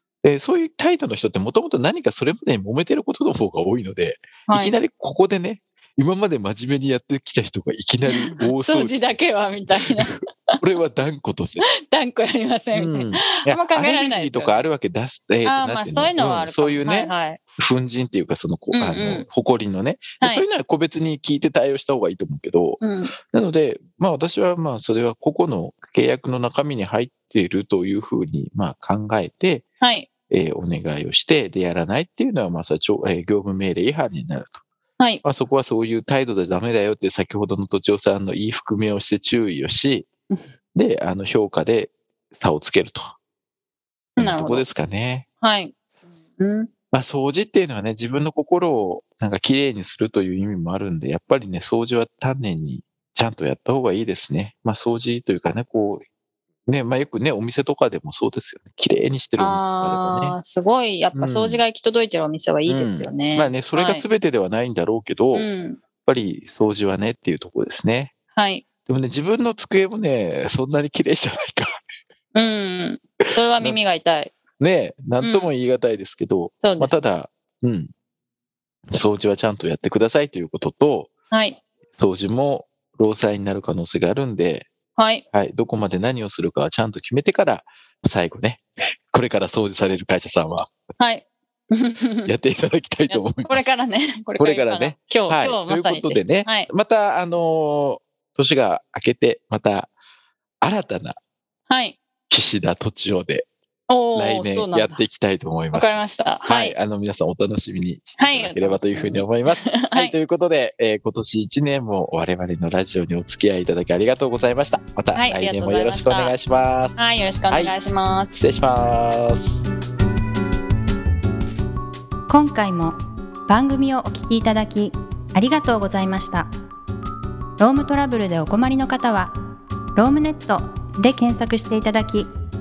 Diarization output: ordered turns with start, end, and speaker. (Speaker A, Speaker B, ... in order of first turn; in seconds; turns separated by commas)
Speaker A: 0.2-9.0, Speaker B: 4.5-4.8, Speaker B: 8.1-10.6, Speaker A: 9.8-11.7, Speaker B: 11.7-14.7, Speaker A: 12.8-29.7, Speaker B: 15.4-17.4, Speaker B: 18.7-19.3, Speaker B: 20.2-20.5, Speaker B: 22.8-23.1, Speaker B: 29.8-30.1, Speaker A: 30.3-34.6, Speaker A: 35.2-40.1, Speaker A: 40.8-43.1, Speaker B: 44.2-44.7, Speaker A: 44.2-45.3, Speaker B: 45.4-45.7, Speaker B: 46.4-46.7, Speaker A: 46.9-56.0, Speaker A: 56.7-60.4, Speaker B: 59.4-64.1, Speaker A: 61.1-61.6, Speaker A: 62.7-65.5, Speaker B: 65.3-65.8, Speaker A: 66.0-68.1, Speaker B: 68.3-68.7, Speaker A: 68.8-71.8, Speaker B: 72.3-74.3, Speaker A: 74.6-77.9, Speaker B: 75.2-75.5, Speaker B: 76.6-76.9, Speaker A: 78.9-81.2, Speaker B: 81.3-81.6, Speaker A: 82.0-84.7, Speaker B: 85.0-85.2, Speaker A: 85.3-90.7, Speaker B: 91.0-92.3, Speaker A: 92.3-93.7, Speaker B: 93.1-96.7, Speaker A: 94.4-99.9, Speaker A: 100.6-101.2, Speaker B: 101.7-102.0, Speaker A: 102.3-103.5, Speaker B: 103.9-105.0, Speaker A: 104.2-117.0, Speaker B: 105.7-106.8, Speaker B: 108.2-110.2, Speaker B: 115.2-116.3, Speaker B: 117.0-118.4, Speaker A: 118.3-119.6, Speaker C: 122.3-126.5, Speaker C: 127.6-129.3, Speaker C: 130.0-132.3